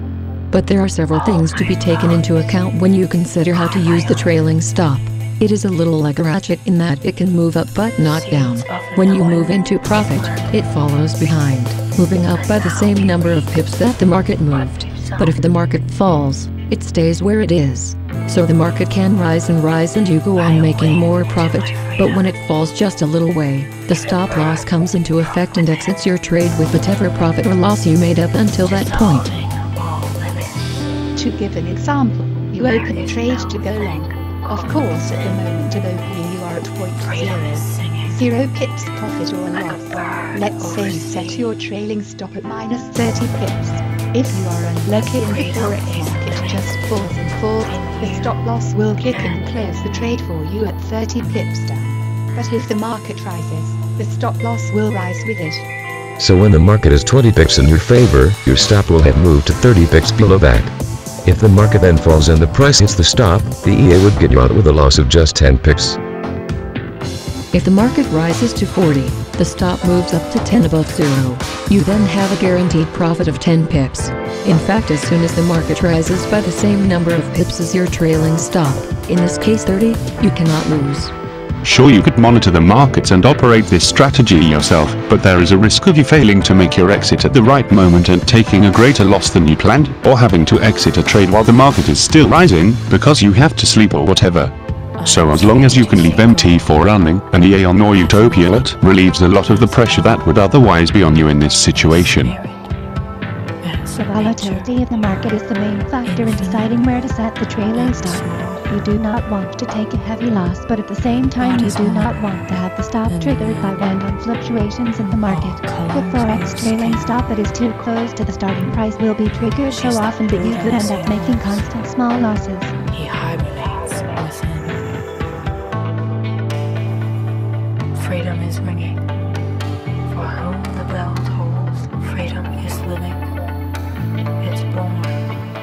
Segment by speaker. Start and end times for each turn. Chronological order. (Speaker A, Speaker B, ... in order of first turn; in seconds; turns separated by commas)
Speaker A: 0.5-29.3, Speaker B: 1.3-2.5, Speaker B: 3.5-4.3, Speaker B: 8.0-10.7, Speaker B: 12.2-13.4, Speaker B: 14.5-15.4, Speaker B: 20.4-22.3, Speaker B: 23.9-25.9, Speaker B: 28.6-30.9, Speaker C: 31.1-55.7, Speaker B: 32.6-35.4, Speaker B: 37.0-38.2, Speaker B: 39.5-41.5, Speaker B: 45.1-46.7, Speaker B: 47.6-48.4, Speaker B: 49.0-50.2, Speaker D: 56.2-60.7, Speaker D: 61.2-66.0, Speaker A: 67.5-81.1, Speaker E: 81.6-102.4, Speaker B: 95.0-96.8, Speaker B: 97.9-98.6, Speaker B: 99.4-100.2, Speaker B: 101.9-102.7, Speaker B: 103.6-104.7, Speaker F: 104.0-122.7, Speaker B: 106.0-106.9, Speaker B: 107.7-108.7, Speaker B: 111.4-113.8, Speaker B: 115.2-117.1, Speaker B: 119.6-121.7, Speaker B: 122.9-124.8, Speaker B: 127.9-129.0, Speaker B: 130.1-133.3, Speaker B: 134.4-135.3